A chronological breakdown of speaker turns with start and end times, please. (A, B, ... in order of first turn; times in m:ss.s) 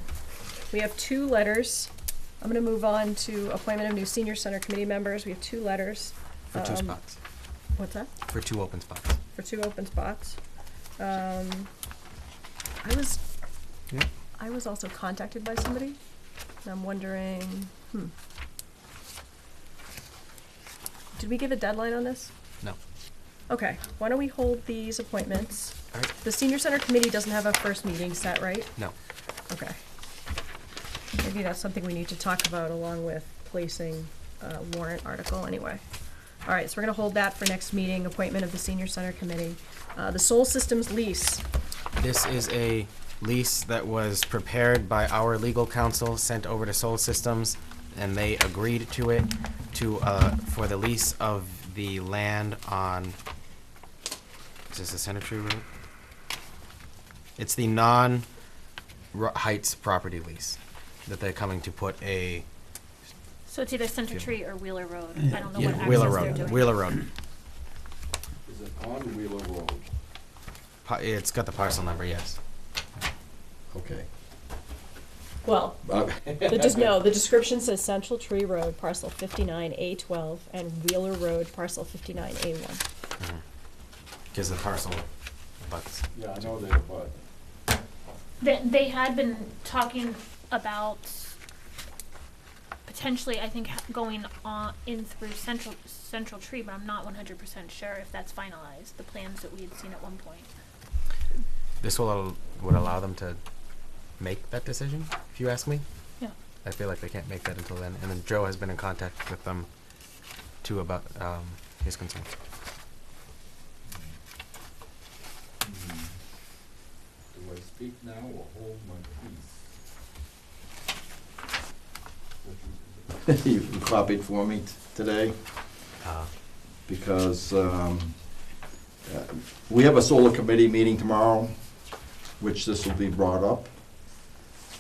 0:00.7-0:01.9 A
0:02.4-0:07.1 A
0:06.6-0:07.1 B
0:07.7-0:08.1 A
0:08.3-0:09.2 B
0:09.3-0:10.4 A
0:11.0-0:11.7 A
0:12.8-0:13.2 A
0:14.4-0:16.0 A
0:16.6-0:18.1 A
0:21.2-0:22.3 A
0:23.5-0:28.7 A
0:29.5-0:29.8 A
0:31.2-0:35.8 A
0:36.4-0:41.4 A
0:42.0-0:53.2 B
0:54.7-0:55.6 B
0:57.4-0:58.3 B
0:59.1-1:02.5 B
1:03.5-1:06.7 C
1:05.5-1:07.0 B
1:08.4-1:09.9 D
1:10.8-1:12.4 B
1:13.7-1:14.1 D
1:15.4-1:22.8 A
1:15.9-1:17.0 D
1:24.3-1:25.1 B
1:25.6-1:26.0 B
1:26.1-1:27.2 D
1:28.4-1:31.3 C
1:32.9-1:40.5 C
1:41.8-1:43.4 B
1:44.2-1:45.8 B
1:46.6-1:49.7 B
1:50.6-1:52.3 B
1:53.8-1:54.1 D
1:55.6-1:56.2 D
1:57.3-1:59.6 D
2:02.4-2:05.8 D
2:06.0-2:06.3 B
2:06.9-2:08.5 D
2:09.0-2:11.8 D
2:12.4-2:13.7 D